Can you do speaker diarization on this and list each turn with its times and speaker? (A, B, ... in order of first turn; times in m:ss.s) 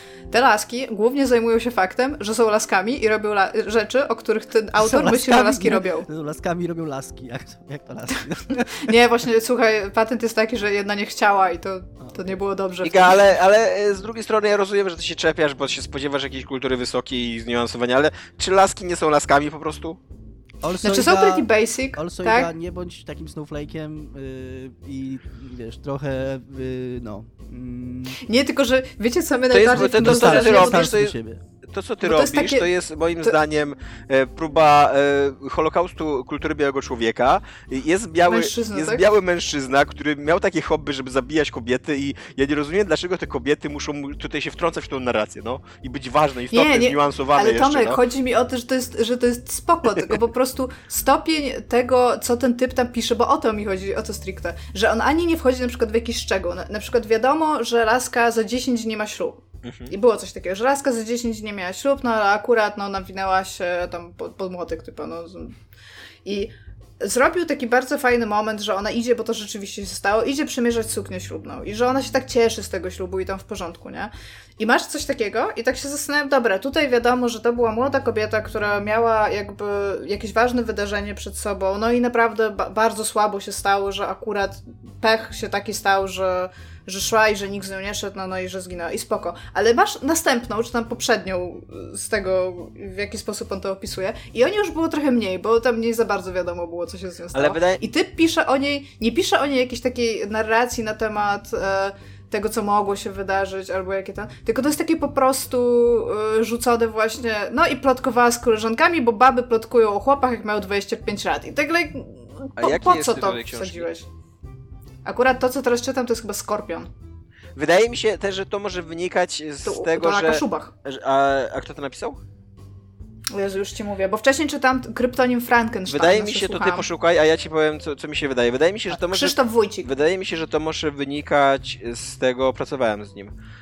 0:00.3-0:06.1 A
0:04.8-0:08.9 B
0:08.7-0:13.2 A
0:12.0-0:12.4 B
0:12.8-0:20.0 C
0:20.6-0:28.2 B
0:20.8-0:22.5 A
0:28.2-0:30.9 A
0:29.5-0:31.2 C
0:29.7-0:31.4 B
0:31.7-0:48.0 C
0:32.0-0:32.7 A
0:38.3-0:39.0 A
0:46.5-1:05.6 A
0:59.6-0:59.9 C
1:06.2-1:54.1 A
1:37.3-1:37.8 C
1:52.6-1:53.9 C
1:55.0-1:56.9 A
1:57.6-2:02.2 C
1:59.6-2:00.7 A
2:03.3-2:06.9 A
2:05.9-2:13.3 C
2:08.9-2:09.9 A